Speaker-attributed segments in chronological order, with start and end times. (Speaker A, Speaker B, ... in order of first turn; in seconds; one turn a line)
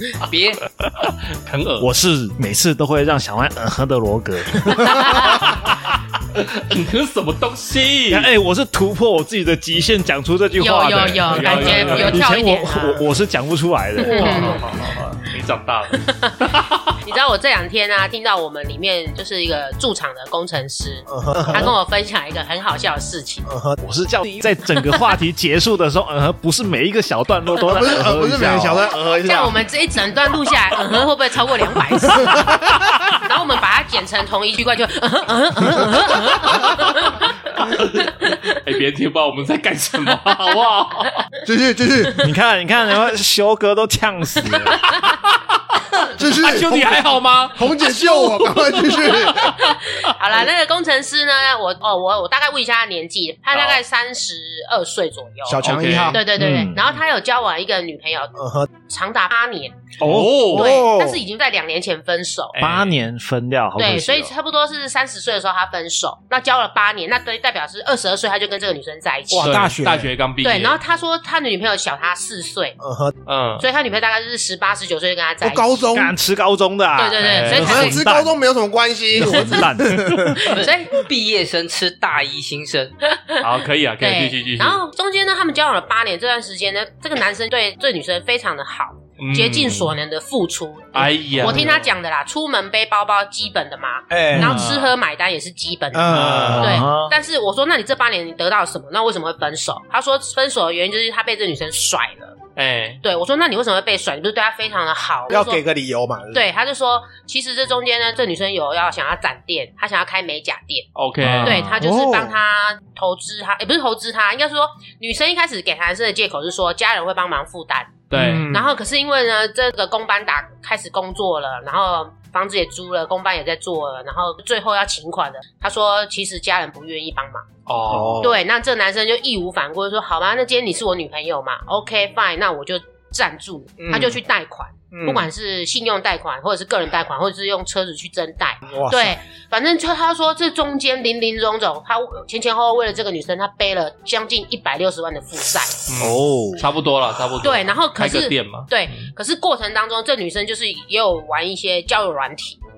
Speaker A: 0.2-0.6
Speaker B: 0.9-1.9
Speaker C: 1.8-5.7
Speaker D: 4.8-5.3
Speaker B: 5.1-8.3
Speaker C: 8.1-14.6
Speaker D: 10.6-13.0
Speaker B: 11.3-12.2
Speaker D: 14.0-15.0
Speaker B: 14.0-17.0
Speaker D: 15.9-16.5
Speaker D: 17.0-23.5
Speaker E: 21.1-21.7
Speaker E: 23.4-23.8
Speaker C: 23.8-28.9
Speaker D: 24.3-25.1
Speaker E: 27.6-29.6
Speaker D: 29.0-38.5
Speaker E: 32.1-32.9
Speaker B: 37.7-41.3
Speaker E: 41.4-42.3
Speaker C: 42.2-44.9
Speaker D: 44.5-44.9
Speaker B: 44.8-47.6
Speaker E: 46.1-49.6
Speaker D: 47.8-62.5
Speaker B: 48.3-50.1
Speaker B: 53.5-53.8
Speaker E: 55.5-56.2
Speaker B: 55.6-56.2
Speaker C: 56.3-56.9
Speaker E: 58.3-58.7
Speaker B: 60.0-60.8
Speaker E: 60.0-61.2
Speaker B: 62.5-62.9
Speaker C: 62.6-64.3
Speaker D: 63.8-69.7
Speaker E: 69.3-70.1
Speaker B: 69.4-70.8
Speaker D: 70.4-72.8
Speaker E: 72.8-73.1
Speaker B: 73.2-73.7
Speaker D: 73.6-75.9
Speaker E: 75.4-76.1
Speaker C: 75.9-78.4
Speaker D: 77.0-78.0
Speaker B: 77.2-77.7
Speaker E: 77.5-80.6
Speaker C: 79.2-80.5
Speaker D: 79.2-79.7
Speaker D: 80.3-81.0
Speaker A: 80.5-82.9
Speaker D: 83.1-83.4
Speaker B: 83.4-84.8
Speaker D: 84.0-102.3
Speaker B: 89.2-89.9
Speaker B: 90.9-91.8
Speaker E: 91.4-91.9
Speaker E: 94.1-94.6
Speaker C: 94.3-94.7
Speaker B: 94.4-94.9
Speaker E: 95.9-96.8
Speaker B: 96.1-96.8
Speaker C: 96.4-97.1
Speaker B: 102.5-103.0
Speaker D: 103.0-105.6
Speaker E: 105.3-106.4
Speaker D: 106.3-110.9
Speaker B: 110.9-111.6
Speaker C: 111.2-111.8
Speaker D: 111.4-127.4
Speaker E: 111.7-112.4
Speaker B: 118.1-118.5
Speaker E: 118.2-118.6
Speaker B: 127.7-128.3
Speaker C: 127.9-128.3
Speaker D: 128.2-145.9
Speaker E: 133.8-134.2
Speaker E: 134.9-135.3
Speaker E: 138.7-139.2
Speaker B: 145.9-149.1
Speaker C: 146.0-146.7
Speaker D: 147.4-152.6